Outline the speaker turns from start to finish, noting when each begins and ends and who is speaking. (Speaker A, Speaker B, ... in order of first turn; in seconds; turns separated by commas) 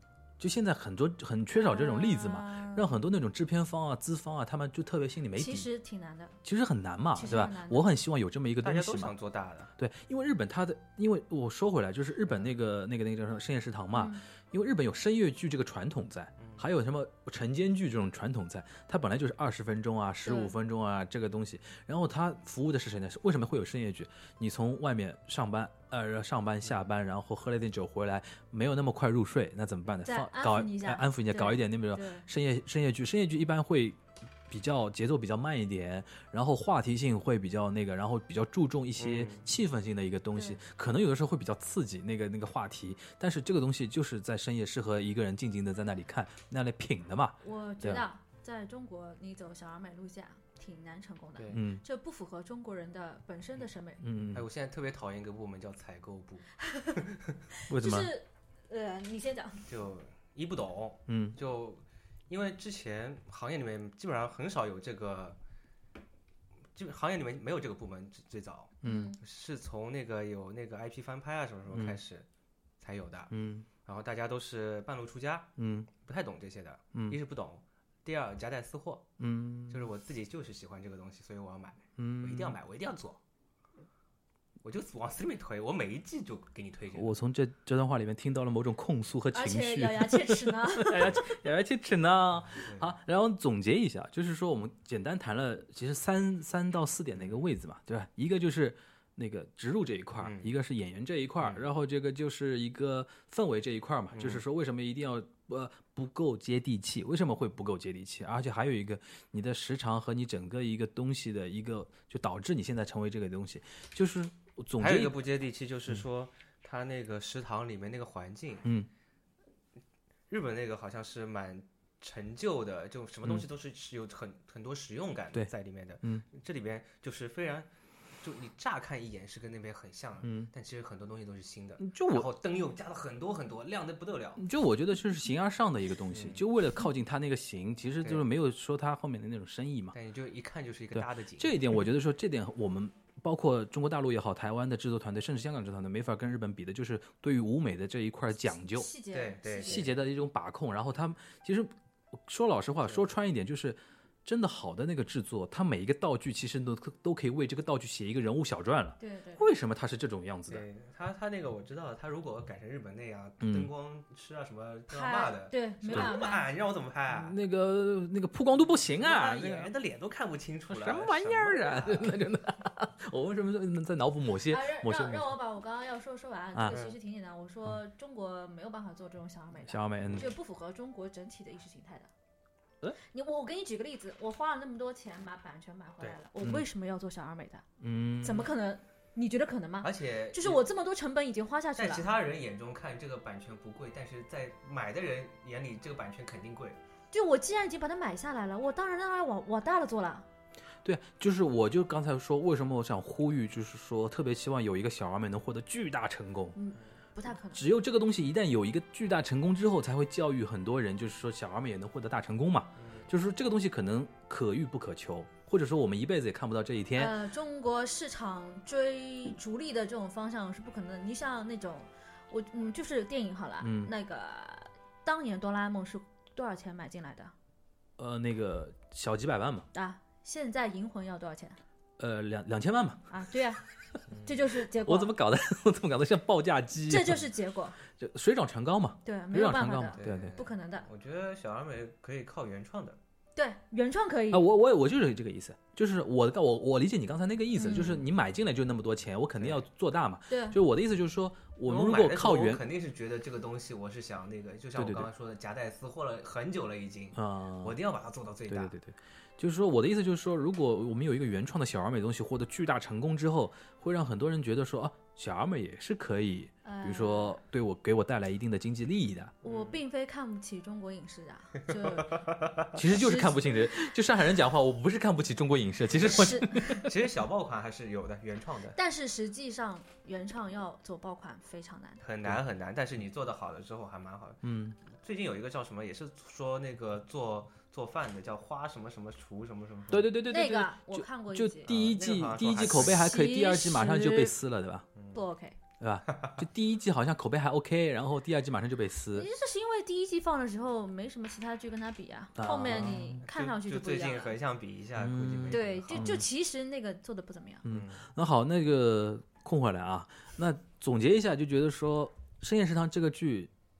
Speaker A: 0.4-5.7, Speaker B: 1.5-2.9, Speaker B: 5.3-6.4, Speaker A: 6.4-9.1, Speaker B: 7.2-7.9, Speaker C: 8.6-9.7, Speaker A: 9.8-48.0, Speaker B: 13.9-14.3, Speaker C: 16.4-16.7, Speaker B: 20.2-20.5, Speaker C: 26.6-26.9, Speaker B: 30.0-32.3, Speaker C: 39.0-39.5, Speaker B: 47.4-54.0, Speaker C: 51.4-51.6, Speaker A: 51.5-51.8, Speaker A: 54.0-54.5, Speaker C: 54.3-57.4, Speaker B: 56.6-57.0, Speaker B: 57.5-59.7, Speaker A: 57.7-58.1, Speaker C: 59.7-65.4, Speaker A: 61.1-61.4, Speaker C: 66.8-72.3, Speaker B: 68.8-69.2, Speaker A: 68.8-69.1, Speaker A: 71.7-72.0, Speaker C: 72.8-73.3, Speaker A: 73.3-73.7, Speaker C: 73.8-79.1, Speaker A: 75.6-75.9, Speaker A: 79.2-79.9, Speaker C: 79.7-83.2, Speaker A: 82.0-82.6, Speaker C: 84.6-87.2, Speaker A: 86.9-115.2, Speaker B: 89.3-91.2, Speaker C: 92.5-93.0, Speaker C: 100.2-100.5, Speaker C: 101.4-101.7, Speaker C: 104.1-104.4, Speaker C: 114.8-118.7, Speaker A: 118.6-118.9, Speaker C: 120.3-127.7, Speaker C: 128.2-134.4, Speaker A: 130.2-130.5, Speaker A: 131.8-132.3, Speaker A: 134.4-139.9, Speaker C: 136.1-136.4, Speaker C: 139.9-141.8, Speaker A: 140.9-148.9, Speaker B: 148.5-149.9, Speaker C: 149.1-149.9, Speaker A: 149.6-160.7, Speaker B: 159.0-159.5, Speaker C: 160.5-167.3, Speaker A: 163.4-163.7, Speaker B: 164.9-166.5, Speaker A: 165.9-166.2, Speaker A: 167.1-169.7, Speaker C: 169.0-172.2, Speaker A: 170.7-175.4, Speaker B: 174.5-182.1, Speaker A: 176.6-176.8, Speaker C: 176.7-177.0, Speaker A: 179.7-180.3, Speaker B: 183.0-187.7, Speaker A: 186.4-186.7, Speaker A: 187.8-188.5, Speaker B: 188.2-192.1, Speaker C: 189.8-190.6, Speaker C: 191.8-196.8, Speaker B: 197.1-200.3, Speaker A: 200.8-206.6, Speaker B: 206.6-207.6, Speaker A: 207.3-217.2, Speaker C: 212.8-213.1, Speaker B: 217.0-227.3, Speaker A: 223.6-223.9, Speaker A: 228.0-229.7, Speaker B: 229.7-231.6, Speaker A: 232.0-233.1, Speaker B: 233.1-233.6, Speaker C: 234.1-234.5, Speaker B: 234.2-235.1, Speaker A: 234.7-237.3, Speaker B: 236.9-237.8, Speaker A: 237.8-240.4, Speaker B: 239.1-240.9, Speaker C: 240.0-243.0, Speaker B: 243.3-244.5, Speaker A: 244.3-252.6, Speaker B: 247.6-248.0, Speaker C: 249.3-249.7, Speaker B: 250.3-250.6, Speaker C: 251.7-258.8, Speaker A: 254.8-255.1, Speaker A: 257.1-257.8, Speaker A: 258.5-269.4, Speaker B: 266.6-267.4, Speaker C: 269.4-269.8, Speaker B: 269.4-272.3, Speaker C: 271.7-272.8, Speaker A: 272.8-276.9, Speaker B: 272.9-273.7, Speaker C: 276.0-278.8, Speaker B: 276.0-276.9, Speaker B: 278.8-282.0, Speaker C: 282.0-290.1, Speaker A: 284.4-284.8, Speaker A: 289.9-294.9, Speaker B: 290.3-291.7, Speaker C: 291.7-293.1, Speaker B: 292.7-294.4, Speaker C: 295.0-295.2, Speaker B: 295.1-295.6, Speaker A: 295.8-299.3, Speaker C: 296.1-296.4, Speaker B: 299.1-304.4, Speaker A: 302.4-303.2, Speaker C: 302.4-306.2, Speaker A: 305.0-306.3, Speaker B: 305.5-307.6, Speaker A: 307.6-313.5, Speaker C: 307.7-308.0